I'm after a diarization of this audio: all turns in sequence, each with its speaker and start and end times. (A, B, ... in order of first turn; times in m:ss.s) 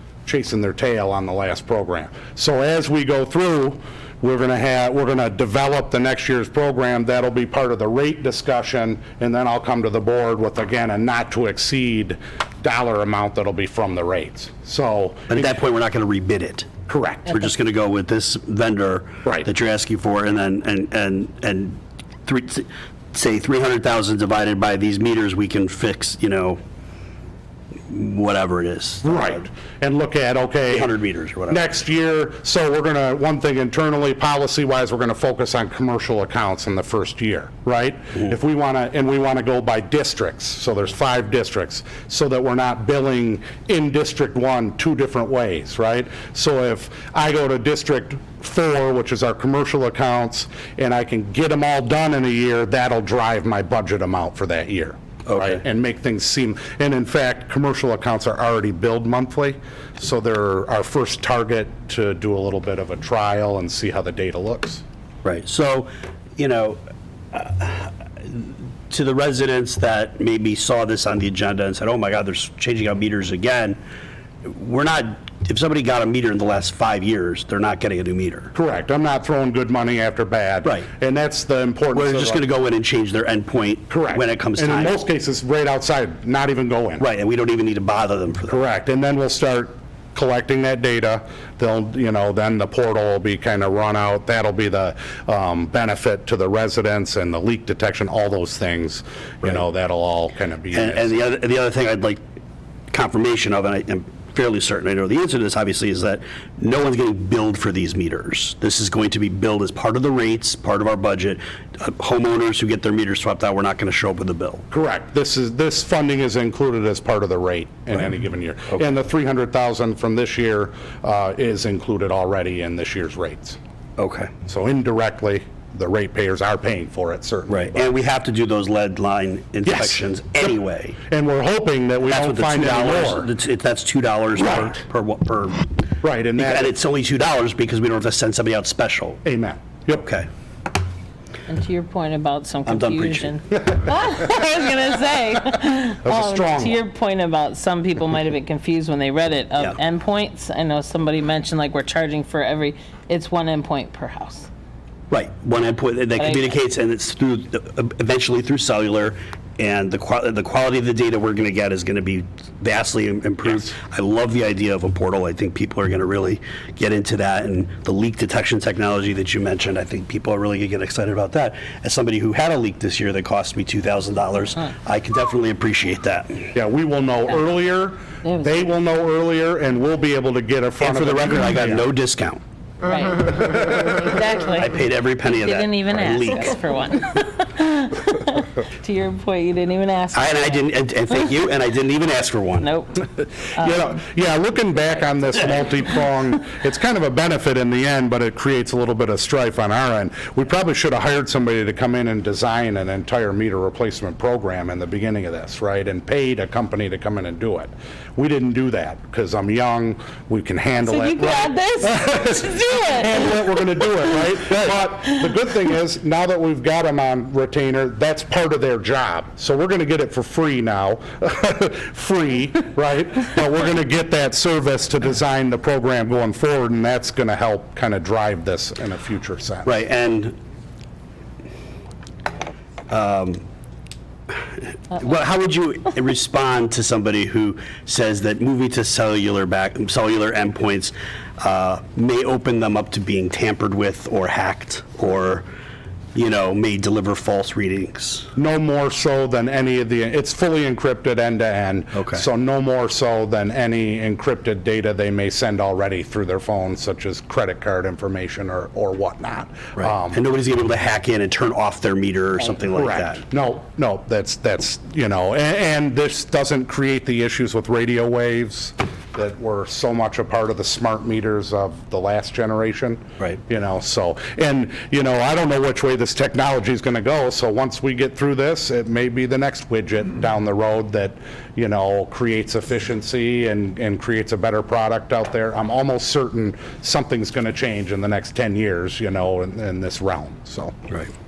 0:00.2-0:15.6 A
0:15.3-0:16.7 B
0:16.9-0:17.4 A
0:17.3-0:26.6 B
0:27.9-0:29.4 B
0:29.0-0:30.9 A
0:30.7-0:31.6 B
0:31.5-1:04.8 A
0:55.3-0:55.6 B
1:05.2-1:06.8 B
1:07.3-1:13.8 B
1:14.4-1:18.5 B
1:18.5-1:22.4 A
1:21.9-1:25.0 B
1:23.9-1:27.0 A
1:27.0-1:28.6 B
1:28.5-1:41.3 A
1:40.7-1:42.2 B
1:42.9-1:54.6 B
1:54.7-2:03.6 A
2:04.0-2:04.3 B
2:04.5-2:08.0 A
2:07.5-2:11.0 B
2:09.6-2:10.5 A
2:11.1-2:13.3 A
2:12.0-2:15.7 B
2:14.4-2:14.8 A
2:16.0-2:16.8 A
2:16.4-2:19.2 B
2:19.2-2:20.0 A
2:19.9-2:20.3 B
2:21.5-2:34.5 C
2:22.7-2:23.4 B
2:26.0-2:26.8 A
2:35.1-2:56.5 B
2:36.2-2:36.6 C
2:56.6-3:01.9 A
2:58.2-2:58.6 C
3:00.8-3:02.4 B
3:02.8-3:10.6 C
3:04.6-3:06.6 B
3:10.1-3:12.7 B
3:12.6-3:14.0 C
3:13.6-3:49.8 A
3:30.8-3:34.0 C
3:49.6-3:50.4 B
3:52.9-3:53.4 B
3:54.3-4:05.4 B
4:06.2-4:08.3 B
4:08.4-4:20.2 A
4:11.9-4:12.2 B
4:19.8-4:23.2 B
4:22.7-4:50.8 A